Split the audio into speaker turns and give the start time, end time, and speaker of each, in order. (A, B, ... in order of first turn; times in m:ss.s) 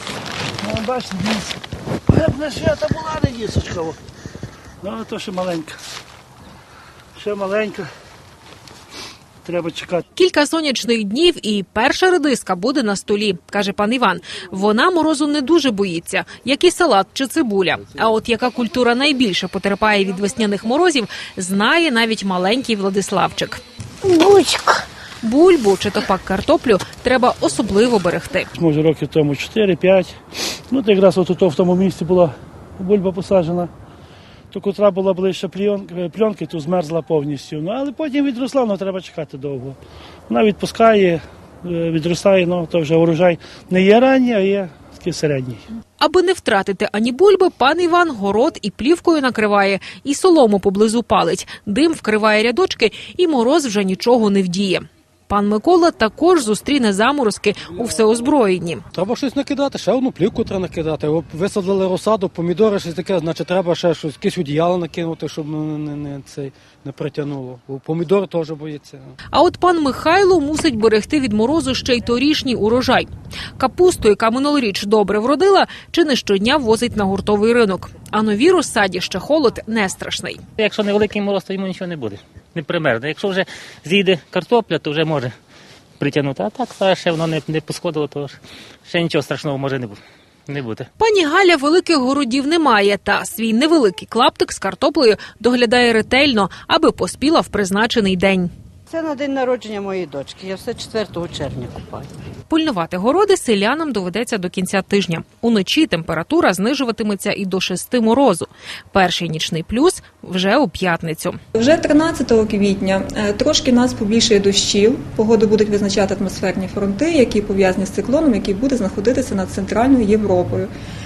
0:00.6-0:01.6 A
0:02.1-0:04.0 A
0:04.8-0:05.8 A
0:07.2-0:07.9 A
0:09.4-0:10.0 A
0:10.2-0:23.6 B
0:25.2-0:28.5 B
0:28.6-0:30.2 A
0:30.7-0:33.7 A
0:34.5-0:39.8 A
0:40.3-0:45.6 A
0:46.0-0:58.8 B
0:58.9-1:09.2 C
1:09.3-1:20.4 B
1:20.6-1:25.3 D
1:26.0-1:30.9 D
1:31.0-1:38.5 B
1:38.9-1:42.1 E
1:42.5-1:51.4 B
1:51.6-2:00.7 F